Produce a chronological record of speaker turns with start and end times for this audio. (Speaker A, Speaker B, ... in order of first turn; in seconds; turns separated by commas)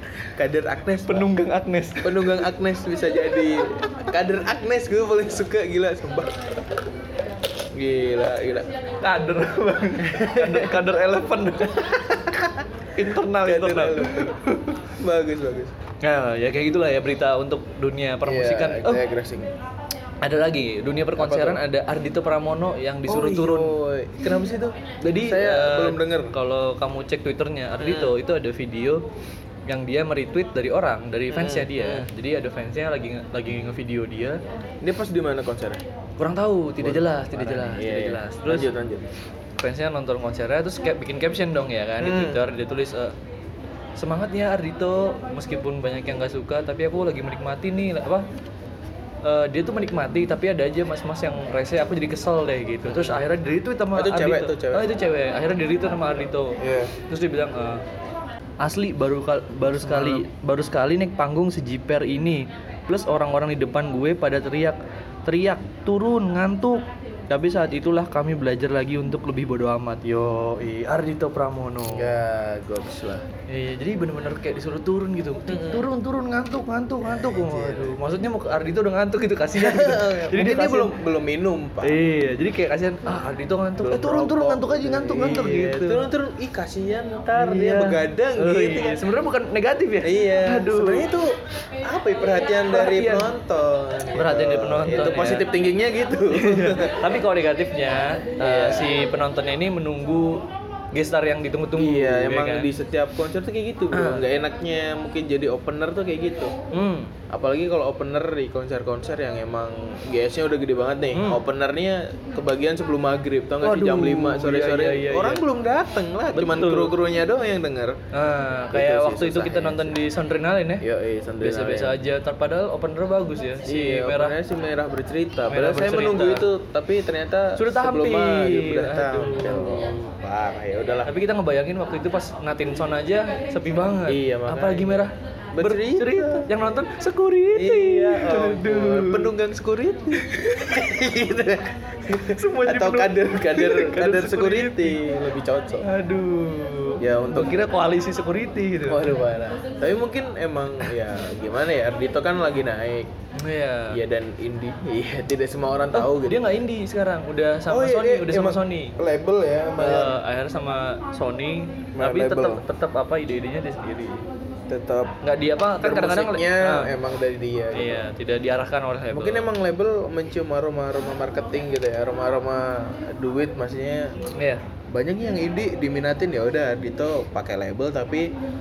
Speaker A: 0.3-1.3, Speaker B: 1.1-2.5, Speaker A: 2.0-6.4, Speaker A: 7.7-8.7, Speaker B: 9.0-12.0, Speaker A: 10.0-11.0, Speaker A: 11.7-14.3, Speaker B: 12.9-14.8, Speaker A: 15.0-15.7, Speaker B: 16.0-19.0, Speaker A: 18.2-19.5, Speaker B: 20.2-23.7, Speaker A: 21.2-21.6, Speaker A: 23.1-26.3, Speaker B: 25.0-29.0, Speaker A: 27.8-28.2, Speaker B: 29.7-34.4, Speaker A: 31.3-32.1, Speaker A: 34.8-35.8, Speaker B: 36.2-38.7, Speaker A: 36.8-39.1, Speaker B: 39.6-43.2, Speaker A: 42.0-42.4, Speaker B: 44.0-48.3, Speaker B: 49.2-57.8, Speaker A: 52.8-53.2, Speaker A: 53.9-54.9, Speaker A: 56.6-56.9, Speaker B: 58.6-72.1, Speaker A: 59.6-60.3, Speaker A: 71.9-73.2, Speaker B: 73.5-80.9, Speaker A: 75.5-75.9, Speaker A: 77.0-77.9, Speaker A: 79.5-82.0, Speaker B: 81.8-86.1, Speaker A: 83.8-89.0, Speaker B: 87.3-91.1, Speaker A: 90.0-97.1, Speaker B: 92.7-93.3, Speaker B: 94.1-95.5, Speaker B: 96.3-102.7, Speaker A: 98.4-99.0, Speaker A: 101.8-106.5, Speaker B: 103.9-104.3, Speaker B: 106.7-107.1, Speaker A: 107.3-118.0, Speaker B: 111.1-111.4, Speaker B: 113.6-115.4, Speaker B: 116.3-117.0, Speaker B: 118.1-120.8, Speaker A: 118.7-120.0, Speaker A: 120.8-122.0, Speaker B: 121.4-124.4, Speaker A: 123.6-131.1, Speaker B: 125.5-126.5, Speaker B: 127.6-130.0, Speaker B: 131.0-139.3, Speaker A: 134.1-136.5, Speaker A: 137.5-145.9, Speaker B: 142.1-145.0, Speaker B: 145.8-149.1, Speaker A: 147.0-147.7, Speaker A: 148.9-153.1, Speaker B: 153.4-154.0, Speaker A: 153.9-156.4, Speaker B: 155.9-159.0, Speaker A: 157.7-160.2, Speaker B: 159.8-164.2, Speaker A: 162.0-162.6, Speaker A: 164.7-165.1, Speaker B: 165.2-166.9, Speaker A: 165.8-168.1, Speaker B: 167.7-169.5, Speaker A: 169.1-174.2, Speaker B: 174.4-174.6, Speaker A: 174.9-178.3